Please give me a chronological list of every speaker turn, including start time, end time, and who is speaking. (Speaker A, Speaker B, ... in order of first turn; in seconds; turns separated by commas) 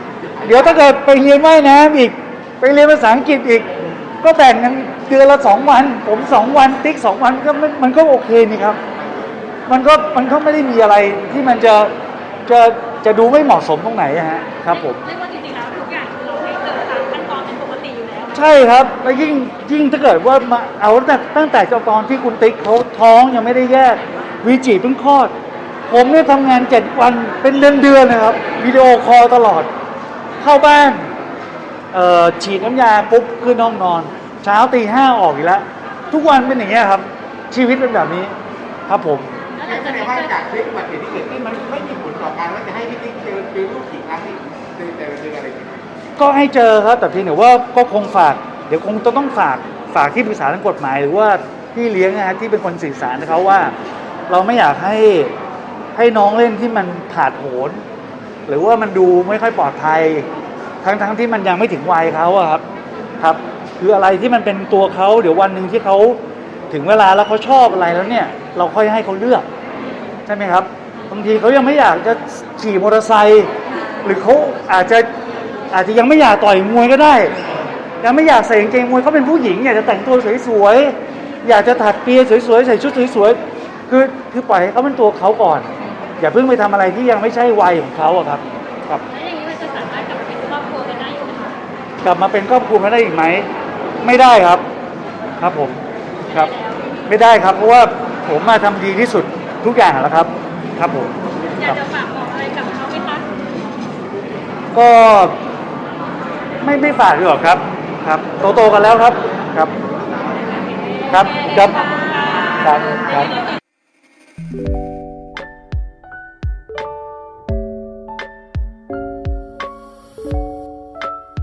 Speaker A: 0.4-3.7, Speaker A: 4.2-8.8, Speaker A: 9.7-11.9, Speaker A: 12.4-15.0, Speaker B: 14.7-18.3, Speaker A: 18.3-25.3, Speaker A: 25.9-29.7, Speaker A: 30.4-31.1, Speaker A: 31.9-38.3, Speaker A: 38.9-39.3, Speaker B: 39.5-40.3, Speaker C: 39.6-45.8, Speaker A: 46.2-53.7, Speaker A: 54.3-55.3, Speaker A: 55.9-57.8, Speaker A: 58.5-60.3, Speaker A: 60.8-62.6, Speaker A: 63.2-69.4, Speaker A: 70.2-73.5, Speaker A: 74.0-75.1, Speaker A: 75.7-77.4, Speaker A: 78.0-89.0, Speaker B: 89.1-91.6, Speaker A: 92.0-93.5, Speaker A: 94.0-94.6, Speaker A: 95.4-95.8, Speaker B: 96.3-96.8, Speaker A: 97.1-101.8, Speaker B: 101.6-103.2, Speaker A: 104.7-105.4, Speaker A: 106.6-109.7, Speaker A: 111.1-111.9, Speaker B: 111.3-112.6, Speaker A: 112.5-113.4